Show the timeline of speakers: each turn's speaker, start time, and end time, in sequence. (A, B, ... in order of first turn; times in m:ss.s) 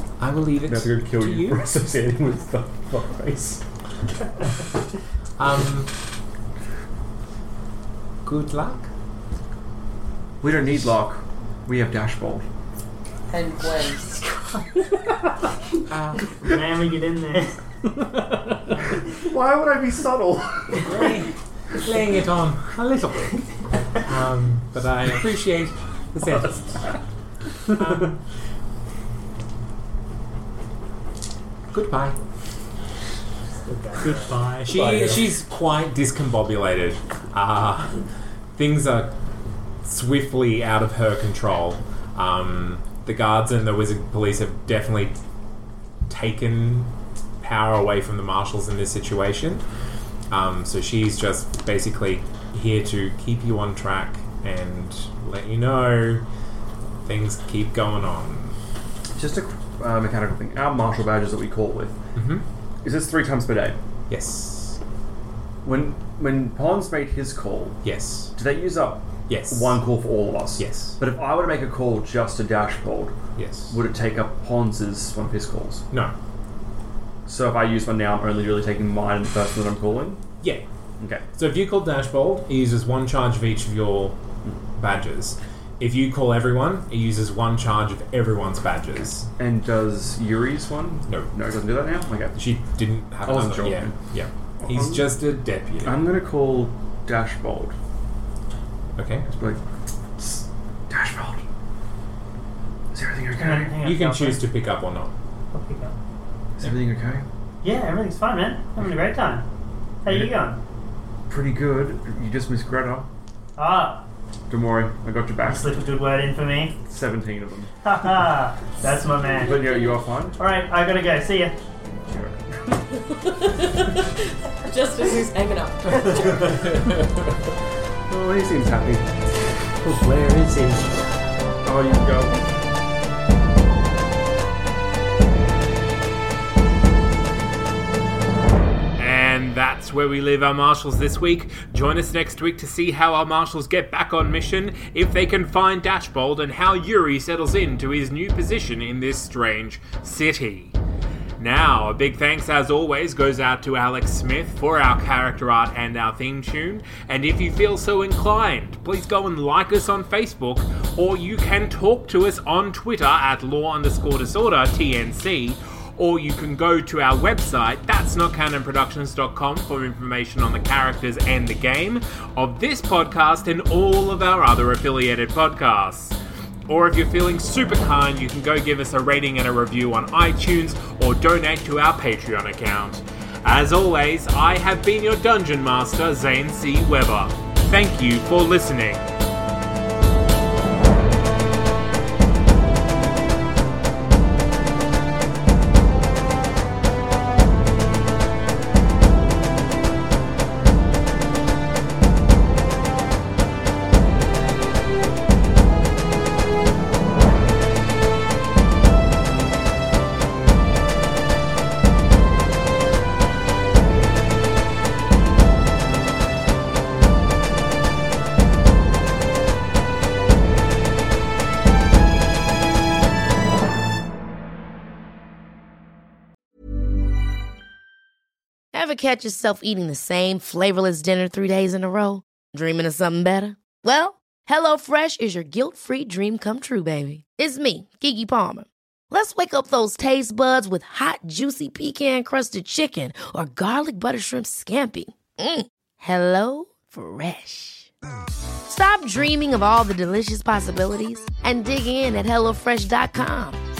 0:00.2-0:01.7 A
0:00.6-0:03.6 B
0:05.4-0:05.9 A
0:08.2-0:08.9 A
0:10.4-0:12.4 B
0:13.3-0:14.6 C
0:15.9-0:16.3 A
0:16.3-0:17.7 D
0:19.1-0:21.0 B
0:20.8-0:27.0 A
0:27.7-0:28.1 A
0:31.7-0:32.2 A
0:33.7-0:34.5 D
0:34.1-0:35.2 E
0:34.6-0:39.1 A
0:39.8-0:45.2 A
0:46.1-0:49.6 A
0:50.3-0:56.2 A
0:57.0-0:58.6 A
0:59.2-1:02.0 B
1:02.2-1:02.4 A
1:02.8-1:03.8 B
1:04.1-1:04.8 A
1:05.6-1:07.8 B
1:07.8-1:08.4 A
1:08.4-1:13.2 B
1:09.3-1:09.8 A
1:10.6-1:11.0 A
1:13.4-1:13.8 A
1:13.7-1:15.8 B
1:17.2-1:20.2 B
1:20.4-1:20.6 A
1:21.0-1:21.2 B
1:21.3-1:24.2 A
1:24.7-1:29.3 A
1:29.4-1:32.4 B
1:31.1-1:31.3 A
1:32.3-1:36.1 A
1:33.2-1:34.1 B
1:34.6-1:35.2 B
1:35.8-1:37.7 B
1:39.0-1:39.3 A
1:39.2-1:39.6 B
1:40.2-1:41.4 B
1:42.9-1:43.8 B
1:43.4-1:44.5 D
1:43.8-1:45.1 A
1:45.5-1:45.9 D
1:46.6-1:47.2 B
1:47.6-1:49.4 D
1:50.0-1:50.6 D
1:51.3-1:53.1 B
1:53.6-1:54.0 D
1:54.5-1:55.8 B
1:55.4-1:56.8 D
1:56.8-1:57.7 B
1:57.8-2:01.6 D
1:59.3-2:00.4 B
2:02.0-2:02.4 B
2:03.0-2:06.9 C
2:08.1-2:09.2 B
2:09.8-2:10.9 E
2:11.6-2:12.5 B
2:19.0-2:30.8 F
2:31.4-3:09.1 F
3:48.7-4:07.9 G
4:08.6-4:13.6 G